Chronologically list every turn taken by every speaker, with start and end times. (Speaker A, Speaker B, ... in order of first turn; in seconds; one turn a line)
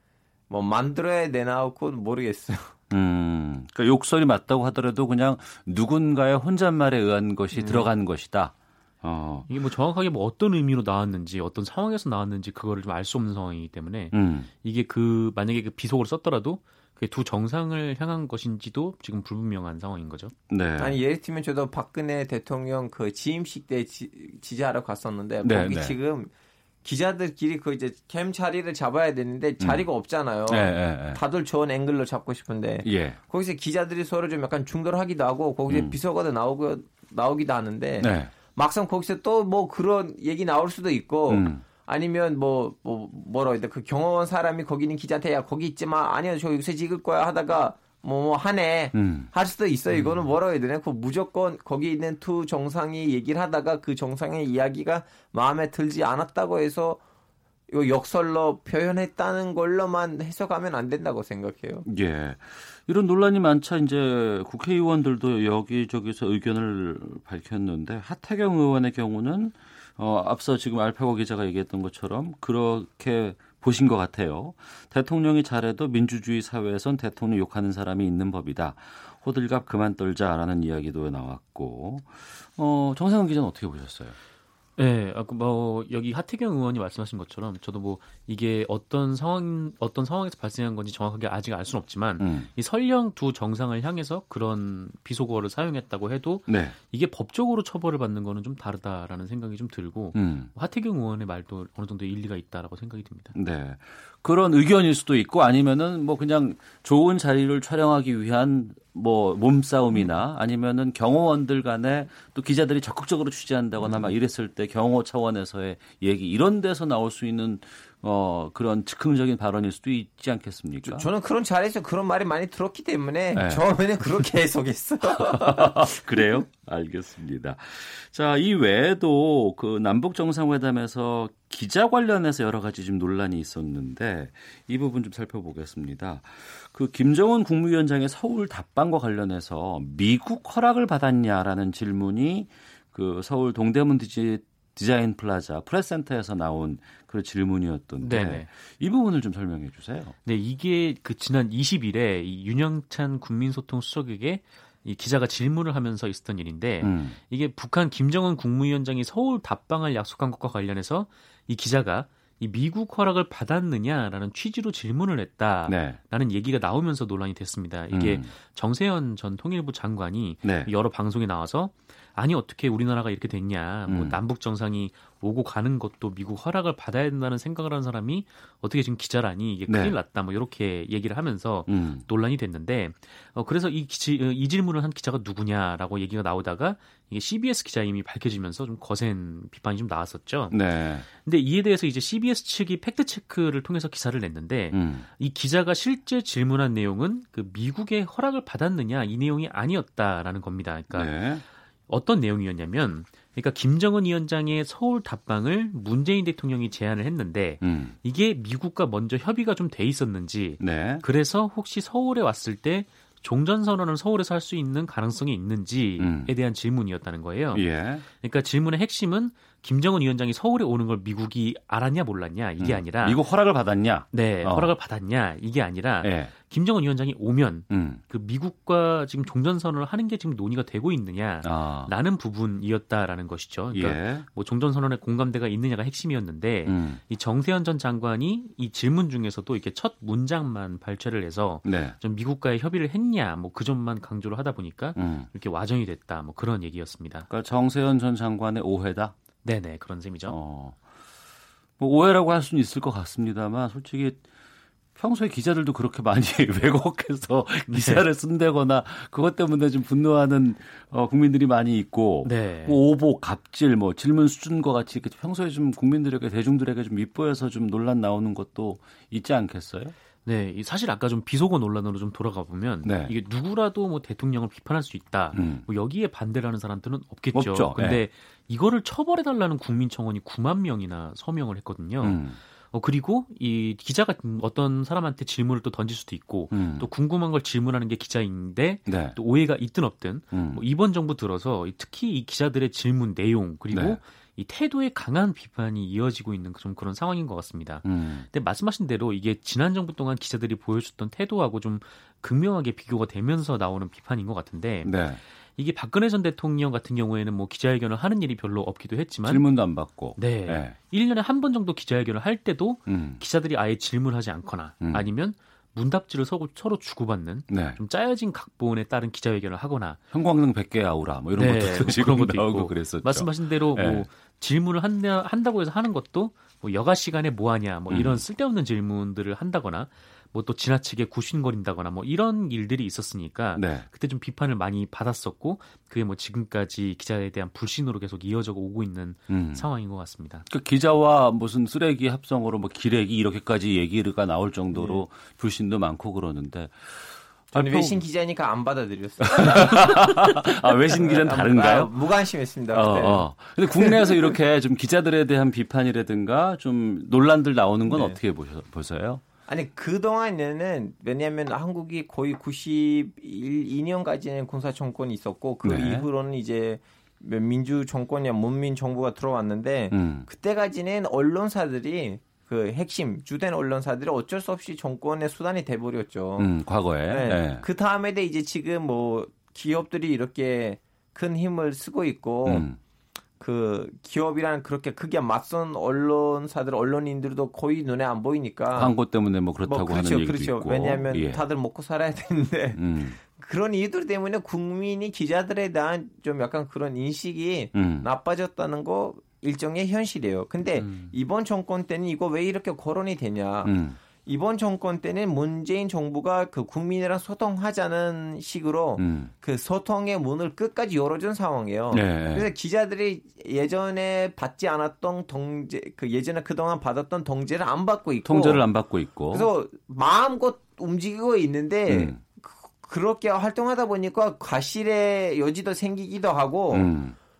Speaker A: 0.5-2.7
Speaker B: 2.9-9.5
Speaker A: 7.5-7.9
Speaker C: 9.5-20.3
Speaker B: 14.1-14.5
Speaker B: 20.5-21.0
Speaker A: 20.8-26.3
Speaker B: 25.4-25.9
Speaker A: 26.8-57.0
Speaker B: 29.6-29.9
Speaker B: 30.5-31.2
Speaker B: 32.8-33.2
Speaker B: 35.7-35.9
Speaker B: 38.0-38.3
Speaker B: 41.3-41.6
Speaker B: 48.9-49.3
Speaker B: 49.9-50.2
Speaker A: 57.7-61.8
Speaker B: 61.8-84.2
Speaker C: 84.8-103.3
Speaker B: 92.2-92.5
Speaker B: 96.5-96.8
Speaker B: 100.1-100.5
Speaker B: 103.3-121.1
Speaker A: 120.8-126.0
Speaker B: 123.3-124.2
Speaker B: 125.1-150.2
Speaker C: 148.0-148.5
Speaker C: 150.2-190.6
Speaker B: 156.8-157.2
Speaker B: 165.7-166.0
Speaker B: 167.9-168.3
Speaker B: 170.4-170.7
Speaker B: 173.9-174.2
Speaker B: 179.7-180.0
Speaker B: 181.7-182.1
Speaker B: 190.5-191.1
Speaker C: 191.2-201.2
Speaker B: 194.7-195.1
Speaker B: 200.9-201.4
Speaker C: 201.9-223.2
Speaker B: 207.6-207.9
Speaker B: 210.6-211.0
Speaker B: 216.0-216.3
Speaker B: 217.5-218.0
Speaker B: 222.6-224.7
Speaker C: 224.1-247.3
Speaker B: 226.0-226.3
Speaker B: 227.7-228.0
Speaker B: 231.4-231.9
Speaker B: 233.7-234.2
Speaker B: 236.6-237.0
Speaker B: 241.6-241.9
Speaker B: 244.9-245.3
Speaker B: 247.3-249.2
Speaker C: 249.4-250.4
Speaker B: 250.2-250.8
Speaker B: 251.8-254.2
Speaker B: 254.9-269.9
Speaker C: 257.7-258.0
Speaker C: 262.2-262.8
Speaker C: 270.2-305.0
Speaker B: 272.8-273.1
Speaker B: 275.3-275.6
Speaker B: 277.3-278.0
Speaker B: 282.0-282.4
Speaker B: 286.5-286.9
Speaker B: 288.9-289.2
Speaker B: 290.3-290.6
Speaker B: 293.7-294.0
Speaker B: 297.8-298.3
Speaker B: 304.8-305.2
Speaker C: 305.6-309.5
Speaker B: 309.2-310.8
Speaker C: 310.1-320.0
Speaker B: 312.9-313.2
Speaker B: 314.8-315.1
Speaker B: 317.5-317.8
Speaker B: 320.1-324.1
Speaker C: 321.3-340.4
Speaker B: 327.9-328.2
Speaker B: 333.6-333.9
Speaker B: 339.3-339.6
Speaker B: 340.4-348.0
Speaker A: 344.7-345.0
Speaker A: 347.5-350.0
Speaker B: 349.3-351.9
Speaker A: 350.9-353.2
Speaker B: 352.7-359.2
Speaker A: 353.8-354.1
Speaker A: 357.9-358.2
Speaker A: 359.5-376.5
Speaker B: 365.6-366.1
Speaker B: 369.9-370.3
Speaker B: 376.4-377.6
Speaker A: 377.1-382.7
Speaker B: 382.4-382.8
Speaker A: 383.4-389.0
Speaker B: 388.8-391.4
Speaker A: 389.6-403.7
Speaker B: 392.7-393.2
Speaker B: 397.7-398.1
Speaker B: 400.8-401.1
Speaker B: 403.6-404.0
Speaker A: 404.2-418.6
Speaker B: 409.0-409.3
Speaker B: 411.9-412.5
Speaker B: 418.2-419.5
Speaker A: 419.3-426.9
Speaker B: 421.9-422.2
Speaker B: 426.7-427.1